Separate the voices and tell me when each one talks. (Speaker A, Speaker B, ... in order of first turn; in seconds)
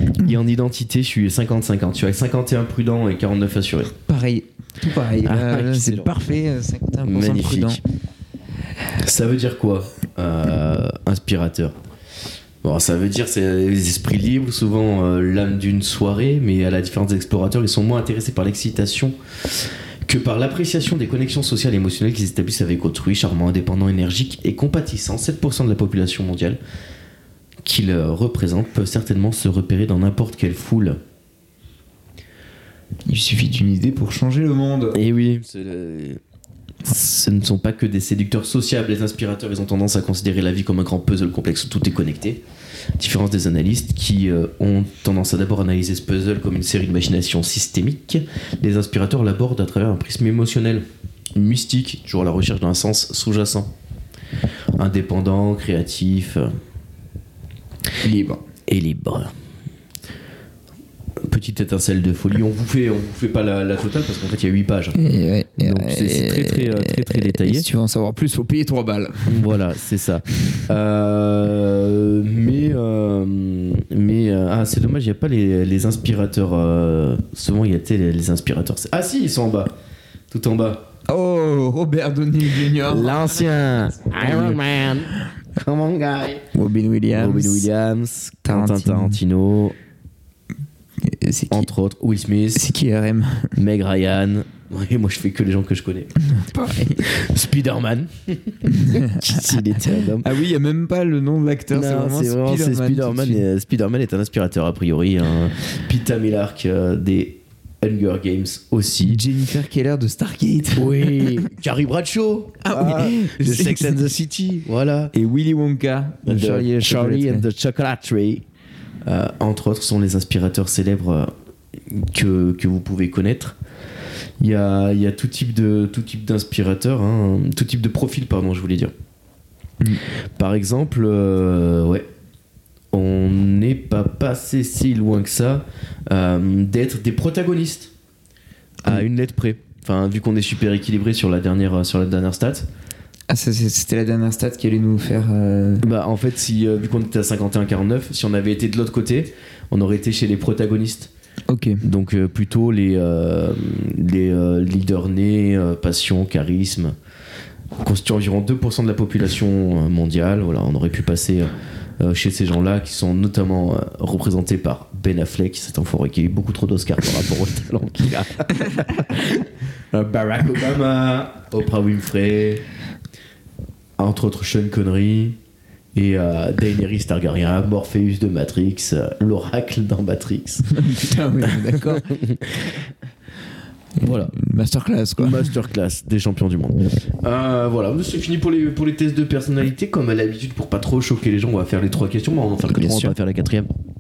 Speaker A: 0.2-4.0, 5.2-6.1, 7.0-7.8, 8.9-11.8, 12.6-26.6, 27.6-31.0, 34.9-36.2, 36.9-42.4, 43.0-50.8, 51.4-53.7, 54.8-56.5, 58.7-59.3, 61.2-65.0, 65.6-67.7, 69.3-79.7, 80.3-80.9, 82.7-86.5, 87.1-89.8, 91.5-92.7, 93.6-96.1, 97.0-100.4, 101.7-109.2, 110.8-115.1, 116.2-118.5, 119.0-123.6, 124.4-128.9, 130.4-132.1, 132.9-137.9, 138.8-142.7, 145.8-151.1, 151.8-156.9, 157.8-172.6, 174.0-175.4, 175.9-180.7, 181.8-182.7, 184.0-184.4, 185.2-193.7
Speaker B: 4.0-7.8, 33.1-35.0, 58.0-58.4, 65.0-69.5, 81.1-83.4, 84.2-84.6, 86.5-87.7, 88.5-89.2, 91.0-91.7, 92.5-93.6, 96.2-97.1, 98.7-99.6, 100.2-103.5, 109.1-111.5, 112.6-114.1, 115.1-117.5, 143.3-145.9, 151.5-151.8, 180.7-182.2, 184.0-185.5, 192.7-193.1